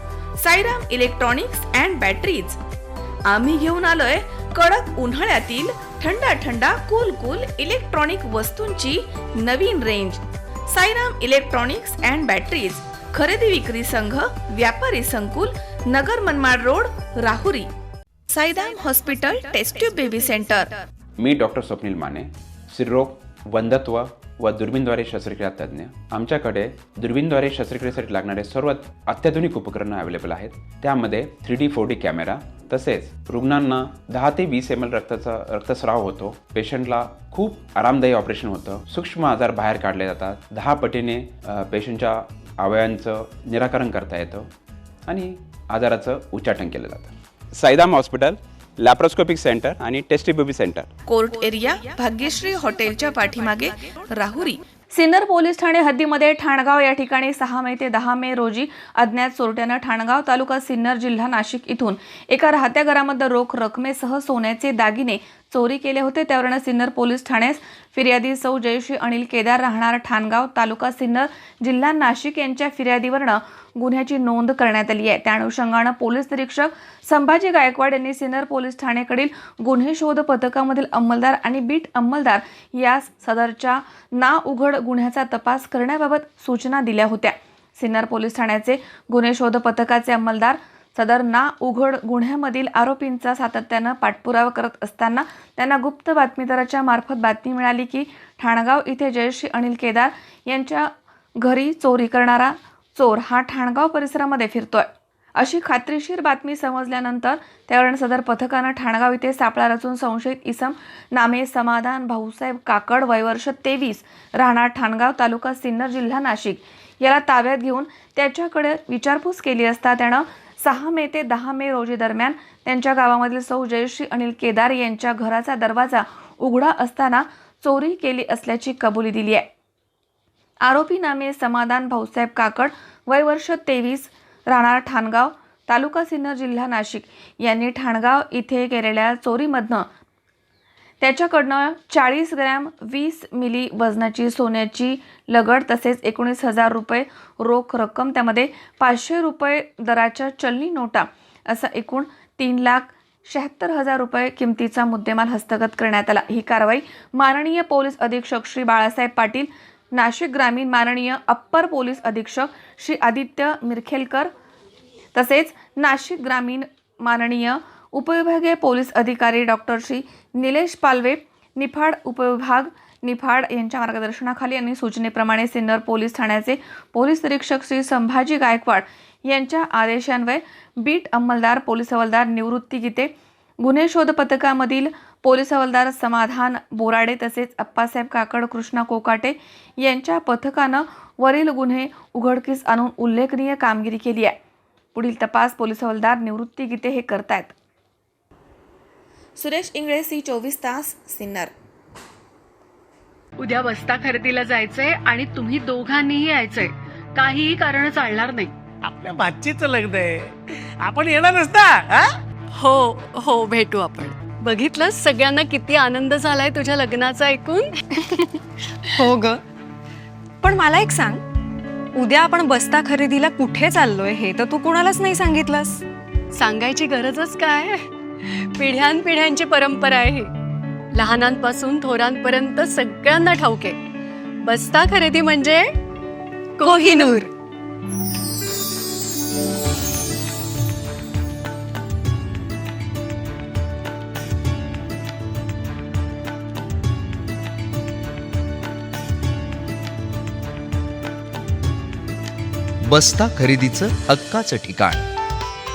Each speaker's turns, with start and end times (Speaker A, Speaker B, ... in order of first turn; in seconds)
Speaker A: 0.4-2.6, 3.3-17.7, 18.3-20.7, 51.1-129.5, 130.7-139.9, 141.0-164.3, 165.1-183.1, 183.6-194.4, 194.9-197.6, 199.4-201.5
Speaker B: 21.2-44.5, 45.1-50.9
Speaker C: 203.4-208.5, 212.6-217.7, 226.3-230.3, 230.9-233.8, 234.4-235.7, 236.6-237.3
Speaker D: 208.8-212.2
Speaker E: 219.0-219.4, 220.4-221.2, 221.9-225.8, 236.6-237.2
Speaker F: 252.9-255.1